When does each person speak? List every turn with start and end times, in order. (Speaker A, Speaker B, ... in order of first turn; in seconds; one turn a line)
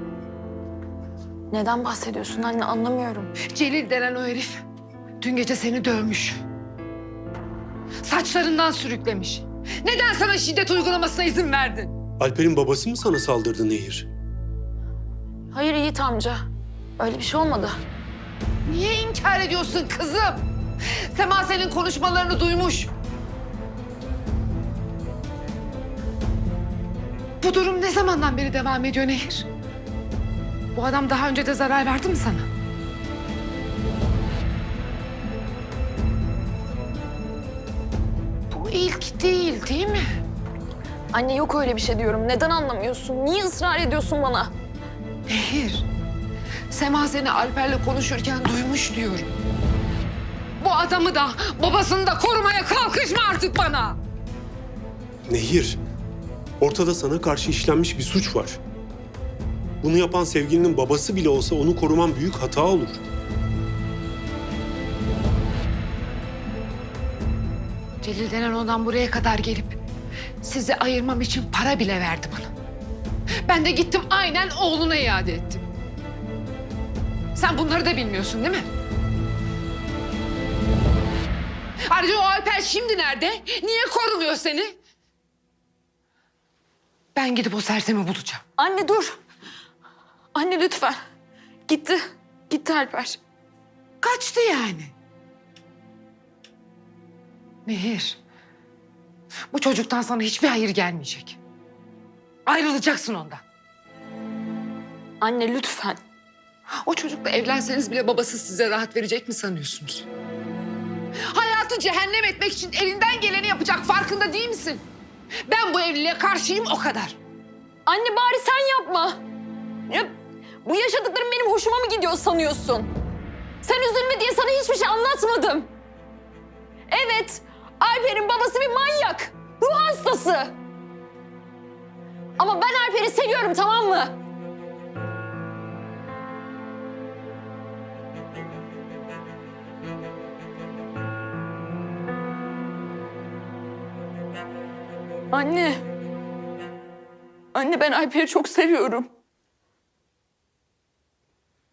Speaker A: 1.5-3.3
Speaker B: 3.4-4.6
Speaker B: 5.2-6.4
Speaker B: 8.0-11.9
Speaker C: 12.2-14.1
Speaker A: 15.5-16.5
Speaker A: 17.0-17.8
Speaker B: 18.6-20.4
Speaker B: 21.1-22.9
Speaker B: 27.4-29.5
Speaker B: 30.7-32.5
Speaker B: 38.5-40.2
Speaker A: 41.1-44.5
Speaker B: 45.3-45.9
Speaker B: 46.7-49.3
Speaker B: 50.6-54.0
Speaker C: 55.3-55.8
Speaker C: 56.6-58.6
Speaker C: 59.8-63.0
Speaker B: 68.0-69.8
Speaker B: 70.4-72.5
Speaker B: 73.5-75.6
Speaker B: 77.3-78.7
Speaker B: 81.9-84.8
Speaker B: 87.1-88.4
Speaker A: 88.6-89.2
Speaker A: 90.3-91.0
Speaker A: 91.7-93.2
Speaker B: 94.0-94.9
Speaker B: 97.6-98.2
Speaker B: 99.5-101.4
Speaker B: 102.5-103.4
Speaker A: 105.2-106.0
Speaker B: 106.7-110.1
Speaker B: 111.3-114.8
Speaker B: 115.5-117.2
Speaker A: 117.8-119.2
Speaker A: 119.9-122.9
Speaker A: 123.6-125.7
Speaker A: 126.9-130.6
Speaker A: 132.4-134.2
Speaker A: 145.3-145.8
Speaker A: 147.5-149.1